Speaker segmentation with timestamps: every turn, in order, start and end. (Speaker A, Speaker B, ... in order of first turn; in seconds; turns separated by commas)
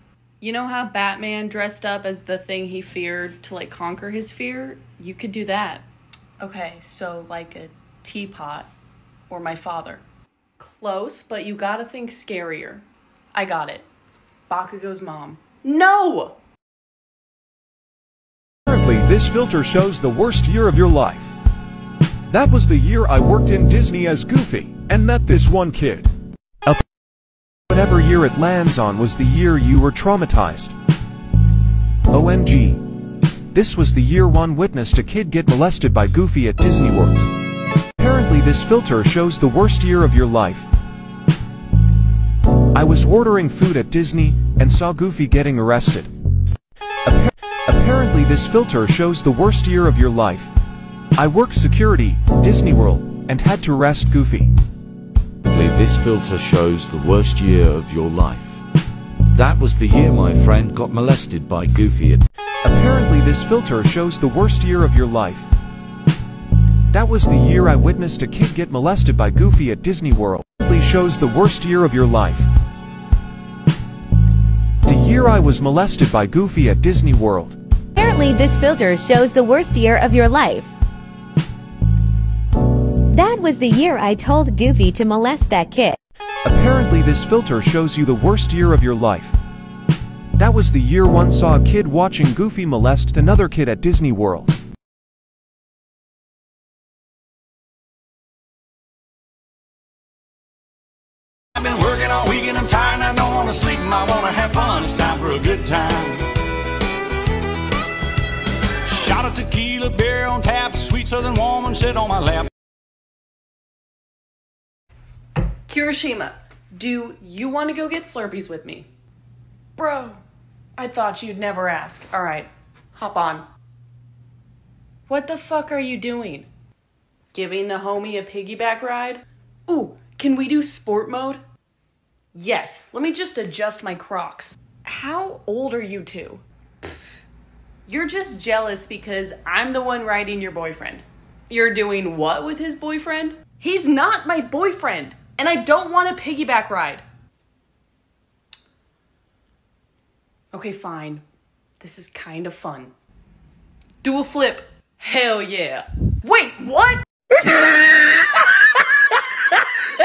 Speaker A: 0.4-5.9, Speaker A: 6.4-8.7, Speaker A: 9.3-10.0, Speaker A: 10.6-13.9, Speaker A: 14.5-16.4, Speaker B: 18.7-21.4, Speaker B: 22.3-26.1, Speaker B: 27.7-30.8, Speaker B: 32.1-32.9, Speaker B: 33.5-37.3, Speaker B: 38.0-40.7, Speaker B: 42.7-46.1, Speaker B: 47.0-50.5, Speaker B: 51.2-54.5, Speaker C: 55.5-55.9, Speaker C: 59.4-60.7, Speaker C: 61.7-62.2, Speaker B: 62.6-65.5, Speaker B: 66.9-72.5, Speaker B: 74.8-77.6, Speaker D: 78.0-80.7, Speaker D: 83.1-86.0, Speaker B: 86.4-89.4, Speaker B: 90.4-94.6, Speaker E: 101.6-106.3, Speaker E: 108.9-112.5, Speaker A: 115.7-118.9, Speaker A: 119.8-120.2, Speaker A: 120.8-123.5, Speaker A: 125.1-126.5, Speaker A: 127.3-131.4, Speaker A: 132.3-137.0, Speaker A: 137.9-147.0, Speaker A: 150.5-151.2, Speaker A: 151.8-152.9, Speaker A: 154.0-157.0